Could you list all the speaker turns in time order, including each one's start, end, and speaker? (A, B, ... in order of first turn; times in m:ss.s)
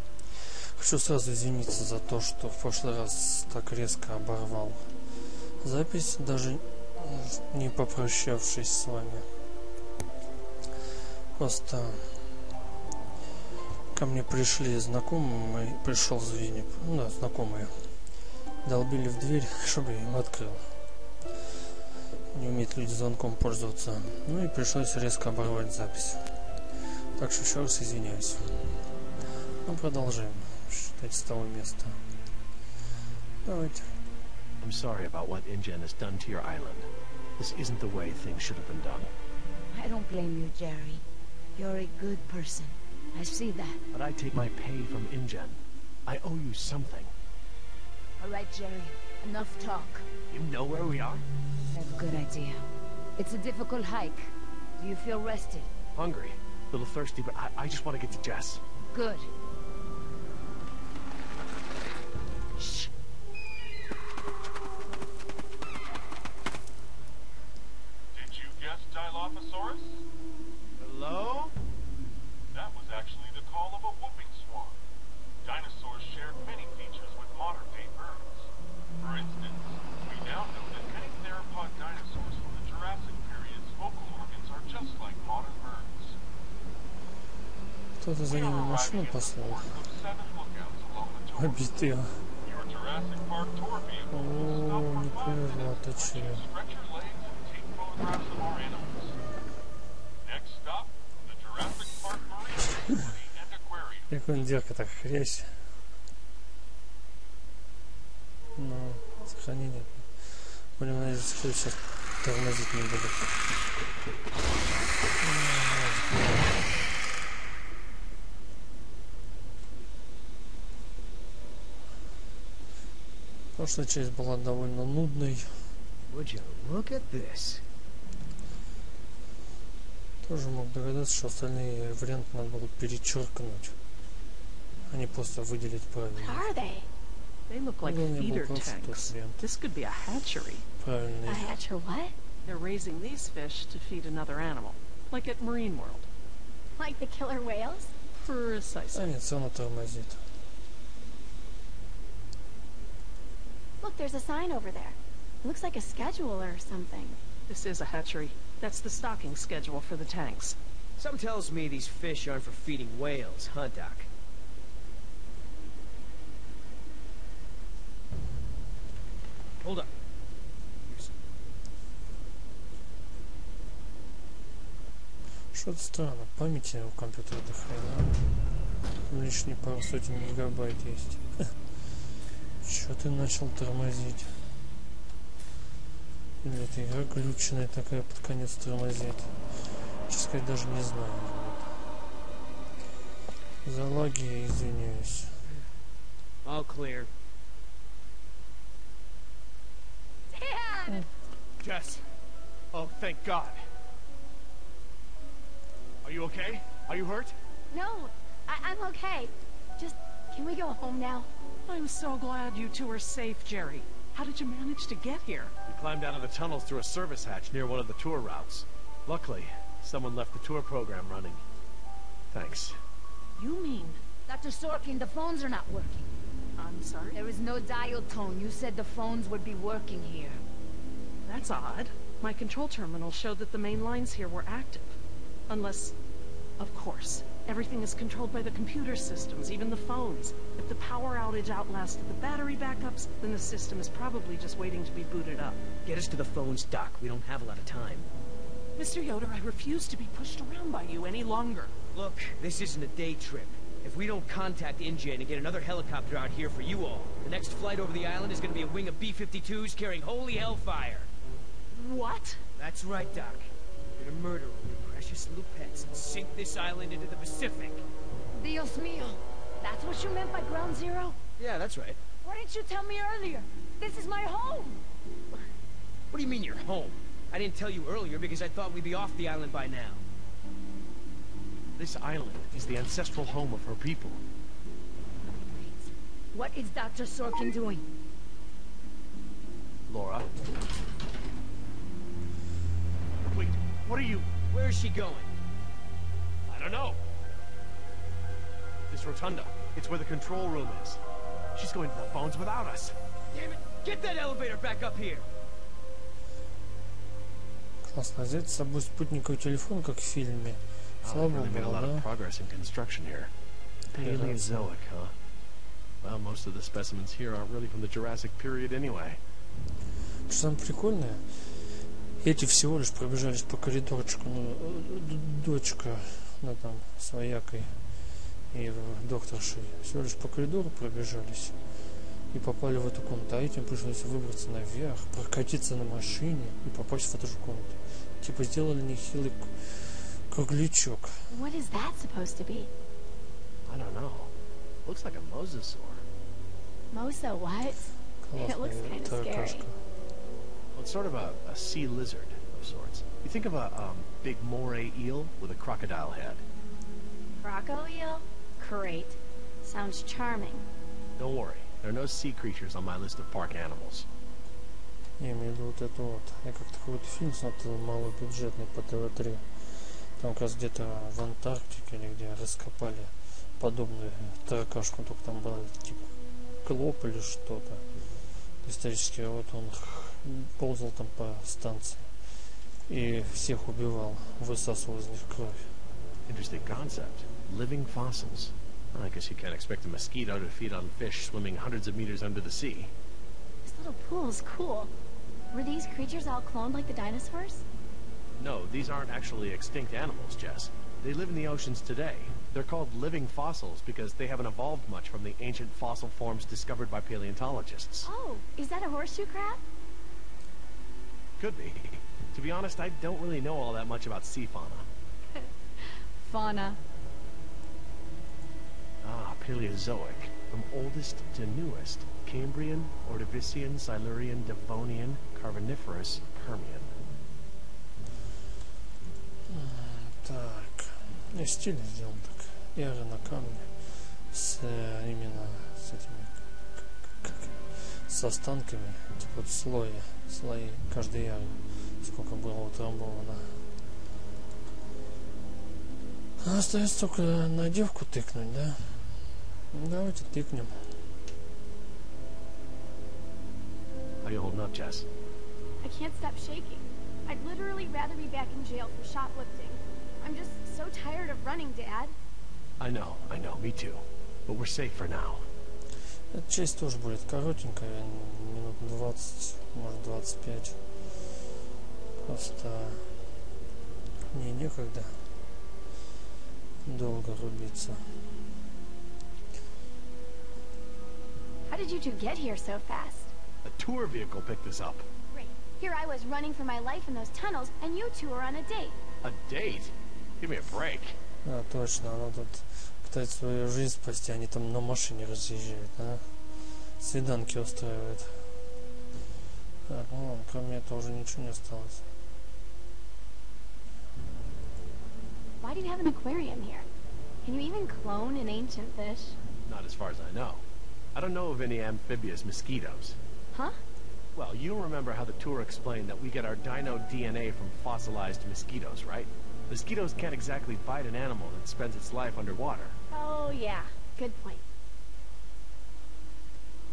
0:00.4-0:04.9 A
0:05.6-0:09.3 A
0:11.4-0:12.2 A
0:13.9-0:17.8 A
0:18.6-0:20.6 A
0:22.3-0:26.2 A
0:27.2-0:28.8 A
0:29.6-0:32.0 A
0:33.4-0:33.9 A
0:34.6-0:39.1 B
0:39.7-0:41.0 C
0:41.6-0:43.8 C
0:43.9-0:47.1 B
0:48.2-0:50.0 C
0:50.3-0:51.2 B
0:51.7-0:52.6 C
0:53.2-0:55.7 C
0:56.0-0:58.6 B
0:58.9-0:59.3 C
1:02.6-1:02.9 C
1:08.1-1:10.0 D
1:10.8-1:11.5 B
1:12.5-1:14.8 D
1:15.4-1:26.2 D
1:28.0-1:29.8 A
1:28.3-1:31.8 D
1:31.4-1:32.2 A
1:32.4-1:39.2 D
1:34.1-1:36.4 A
1:40.2-1:44.1 D
1:44.1-1:45.6 A
1:48.6-1:53.4 A
1:55.2-1:56.5 A
2:03.6-2:05.7 A
2:06.1-2:07.6 E
2:10.2-2:13.8 A
2:14.9-2:16.5 A
2:16.2-2:16.9 F
2:17.5-2:20.7 G
2:17.8-2:19.4 A
2:20.8-2:21.6 A
2:21.3-2:22.2 F
2:22.5-2:26.1 G
2:26.8-2:27.9 F
2:28.1-2:29.1 G
2:28.9-2:30.2 A
2:33.8-2:37.2 F
2:37.5-2:40.6 G
2:41.0-2:44.1 E
2:49.6-2:49.9 E
2:50.8-2:51.2 E
2:55.5-2:58.2 A
2:59.1-3:01.5 A
3:02.6-3:04.3 A
3:06.4-3:11.7 A
3:13.6-3:15.3 A
3:16.4-3:17.1 E
3:20.3-3:21.1 F
3:21.6-3:22.0 E
3:22.7-3:23.6 B
3:26.0-3:27.3 B
3:27.7-3:31.3 F
3:31.7-3:35.5 G
3:35.6-3:41.4 B
3:42.3-3:42.8 B
3:43.4-3:44.0 G
3:44.2-3:46.1 C
3:46.6-3:47.2 G
3:47.1-3:50.4 C
3:51.3-3:54.8 G
3:55.5-3:56.0 G
3:56.6-4:05.7 G
4:05.8-4:08.1 E
4:08.8-4:11.7 G
4:11.9-4:21.1 E
4:21.7-4:22.4 G
4:22.6-4:27.8 E
4:28.3-4:31.2 C
4:31.4-4:32.0 E
4:32.2-4:34.8 C
4:36.1-4:40.0 E
4:41.8-4:44.2 B
4:45.3-4:47.8 C
4:49.9-4:50.3 B
4:53.3-4:54.3 B
4:54.5-4:55.3 E
4:56.5-4:57.0 B
4:58.9-5:01.0 B
5:01.5-5:02.9 B
5:03.3-5:05.2 E
5:07.8-5:12.1 A
5:11.0-5:13.3 B
5:13.9-5:14.7 A
5:13.9-5:15.1 B
5:16.0-5:19.2 B
5:20.3-5:27.8 A
5:28.5-5:31.6 A
5:32.3-5:41.2 A
5:41.3-5:42.7 F
5:43.7-5:44.3 B
5:44.8-5:46.0 B
5:46.9-5:47.8 F
5:48.2-5:49.8 A
5:48.3-5:49.6 F
5:50.7-5:56.4 B
5:57.4-6:00.6 F
6:01.2-6:04.1 B
6:05.2-6:17.8 A
6:18.6-6:22.1 A
6:22.9-6:25.7 A
6:26.3-6:32.9 B
6:33.6-6:34.9 F
6:35.5-6:37.6 F
6:38.4-6:48.1 B
6:48.0-6:49.6 F
6:51.4-6:54.9 B
6:55.3-6:56.8 F
6:59.0-7:06.9 B
7:09.5-7:16.3 A
7:17.2-7:23.6 A
7:26.4-7:29.1 A
7:29.7-7:30.9 A
7:34.2-7:35.1 B
7:35.8-7:42.1 F
7:42.8-7:45.4 B
7:46.3-7:50.8 A
7:52.2-7:53.2 A
7:54.3-7:55.2 A
7:56.8-7:58.0 A
8:01.7-8:03.3 F
8:03.6-8:05.1 B
8:05.3-8:09.0 F
8:09.2-8:11.2 B
8:11.4-8:18.5 A
8:19.9-8:22.0 A
8:25.6-8:26.8 F
8:27.4-8:29.4 F
8:29.7-8:30.6 B
8:31.2-8:33.2 B
8:33.5-8:33.8 F
8:34.4-8:43.0 B
8:43.1-8:44.6 F